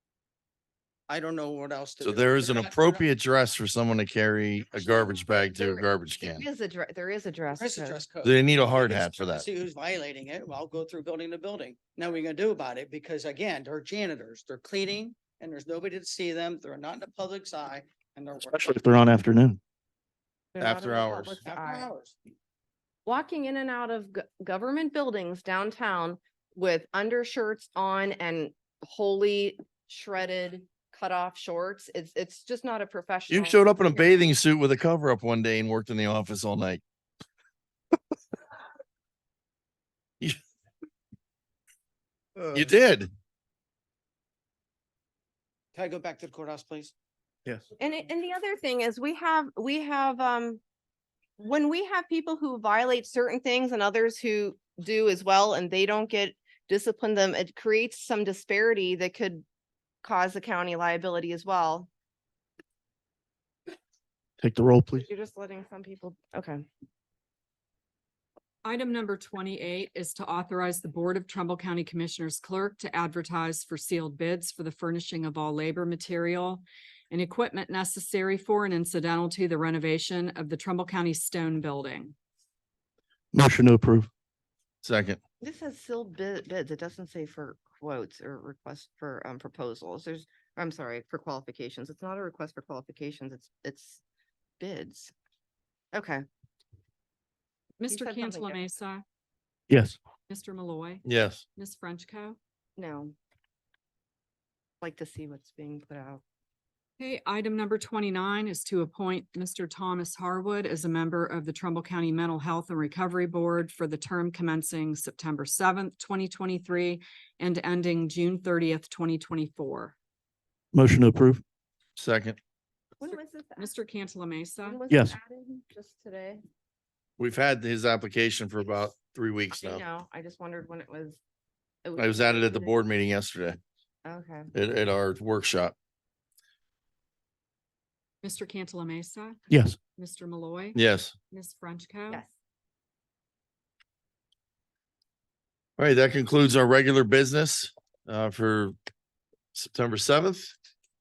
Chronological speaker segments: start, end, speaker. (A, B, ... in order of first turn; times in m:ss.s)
0:01.1-0:03.0 A
0:02.0-0:06.5 B
0:05.2-0:08.0 C
0:07.6-0:18.7 A
0:08.2-0:09.5 B
0:18.4-0:19.6 D
0:20.5-0:21.9 C
0:20.6-0:21.4 B
0:21.4-0:22.2 A
0:23.0-0:34.3 C
0:33.3-0:36.8 B
0:42.4-0:42.7 A
0:42.5-0:43.1 B
0:45.8-0:46.9 A
0:47.8-0:50.6 C
0:51.4-0:59.4 C
1:00.0-1:01.9 C
1:04.4-1:05.1 D
1:05.0-1:06.7 C
1:08.6-1:22.2 E
1:23.3-1:24.1 D
1:24.8-1:25.2 B
1:25.4-1:34.0 C
1:34.6-1:35.1 C
1:35.9-1:36.2 C
1:37.8-1:39.0 E
1:37.9-1:38.6 C
1:39.7-1:40.0 D
1:40.3-1:41.0 E
1:41.0-1:41.4 B
1:41.6-1:42.4 E
1:42.8-1:43.2 C
1:44.8-1:46.2 C
1:47.0-2:00.0 E
2:00.7-2:01.4 D
2:02.0-2:02.4 B
2:03.0-2:03.7 C
2:03.6-2:04.8 E
2:04.6-2:06.4 C
2:04.9-2:05.2 D
2:07.2-2:09.8 B
2:09.5-2:11.2 C
2:11.8-2:12.8 C
2:12.0-2:13.6 B
2:14.0-2:14.5 C
2:14.5-2:15.8 B
2:18.2-2:19.4 E
2:19.5-2:19.8 D
2:20.0-2:20.8 E
2:20.8-2:21.1 B
2:21.3-2:22.2 E
2:25.8-2:28.8 B
2:29.5-2:30.5 B